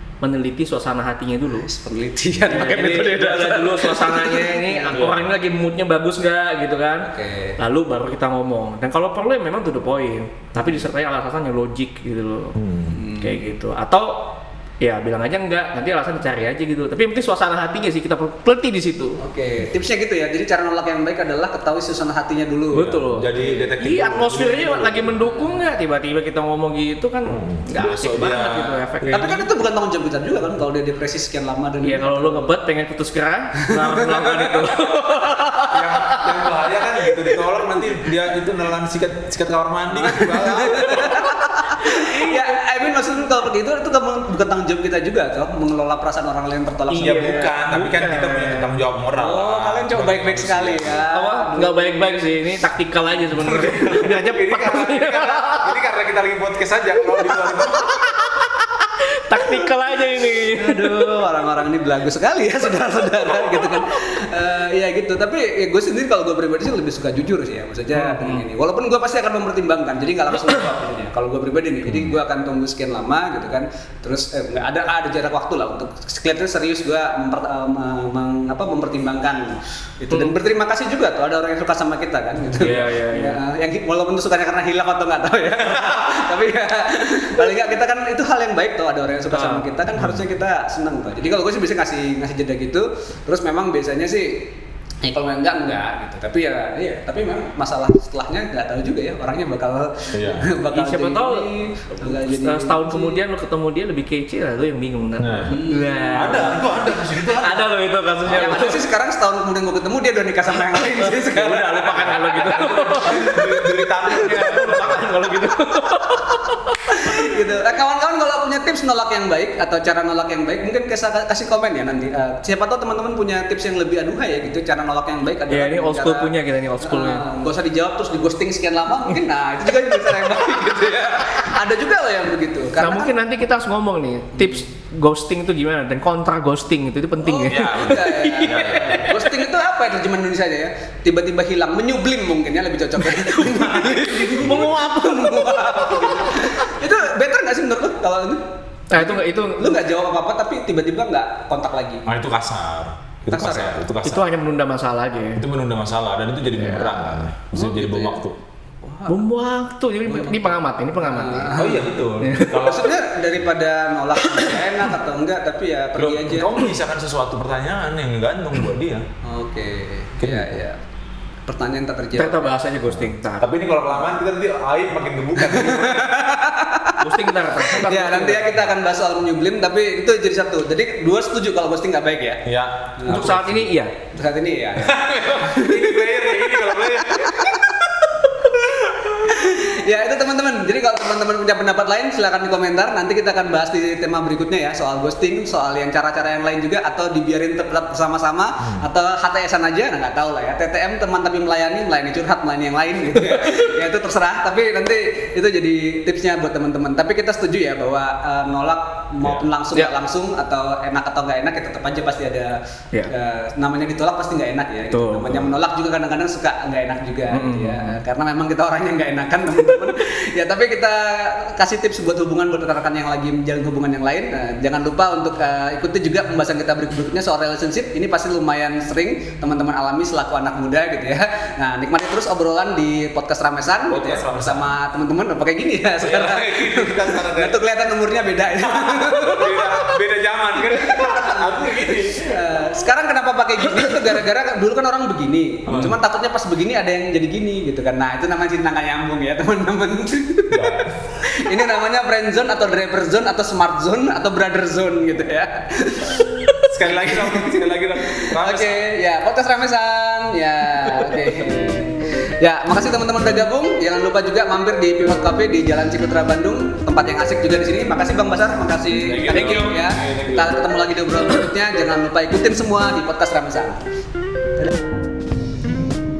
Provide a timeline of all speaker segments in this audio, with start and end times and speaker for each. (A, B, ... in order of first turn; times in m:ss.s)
0:00.2-0:01.7 A
0:01.5-0:05.0 B
0:02.5-0:19.2 A
0:04.9-0:05.2 C
0:07.0-0:07.6 B
0:12.6-0:13.0 C
0:12.9-0:13.4 B
0:19.2-0:22.9 B
0:22.7-0:29.4 A
0:22.7-0:25.2 C
0:23.4-0:23.6 B
0:27.3-0:29.3 C
0:29.1-0:32.5 B
0:31.8-0:37.7 A
0:33.7-0:34.8 B
0:35.7-0:41.2 C
0:40.0-0:47.5 B
0:41.0-0:42.6 A
0:46.9-0:48.8 A
0:47.0-0:51.0 C
0:49.2-0:52.2 B
0:51.1-0:55.8 A
0:53.3-0:57.8 C
0:57.2-0:58.6 A
0:59.2-1:01.1 A
1:00.5-1:34.4 B
1:03.3-1:03.9 A
1:07.9-1:08.4 A
1:22.5-1:23.4 A
1:25.6-1:26.0 C
1:29.3-1:29.6 A
1:29.9-1:30.3 C
1:35.0-1:43.2 B
1:40.1-1:40.5 C
1:40.7-1:41.5 A
1:42.0-1:48.9 A
1:45.2-1:45.6 C
1:45.5-1:46.5 B
1:46.1-1:47.7 C
1:48.3-1:52.5 B
1:50.7-1:56.7 A
1:52.1-1:55.3 C
1:53.1-1:53.4 B
1:56.9-2:13.1 B
2:05.5-2:07.2 A
2:10.0-2:10.4 A
2:12.8-2:19.4 A
2:17.2-2:32.0 B
2:17.4-2:19.0 C
2:23.0-2:26.6 A
2:28.9-2:29.8 A
2:32.0-2:34.2 C
2:33.3-2:33.8 B
2:34.0-2:35.4 A
2:35.4-2:38.4 C
2:36.5-2:37.3 A
2:37.5-2:38.2 B
2:38.8-2:39.3 B
2:39.1-2:42.8 A
2:40.0-2:41.9 B
2:41.6-2:42.9 C
2:42.6-2:46.6 B
2:44.2-2:44.7 A
2:46.0-2:49.0 C
2:49.2-2:50.8 B
2:50.2-2:50.6 C
2:51.5-2:52.5 B
2:52.1-2:53.5 A
2:52.9-2:56.2 C
2:55.4-2:57.0 B
2:57.0-2:58.6 A
2:57.7-3:02.4 B
3:02.4-3:03.4 C
3:03.0-3:03.6 B
3:03.1-3:03.9 A
3:04.1-3:07.7 B
3:04.8-3:07.7 C
3:09.1-3:32.5 B
3:23.3-3:23.6 A
3:29.2-3:29.5 C
3:33.1-4:00.0 B
3:34.9-3:35.5 A
3:37.3-3:38.0 A
3:53.9-3:54.7 C
3:56.0-3:57.6 C
3:58.6-4:02.4 C
4:00.6-4:16.2 B
4:05.7-4:06.0 C
4:10.5-4:11.0 C
4:16.7-4:18.8 C
4:16.9-4:33.8 B
4:29.0-4:30.6 C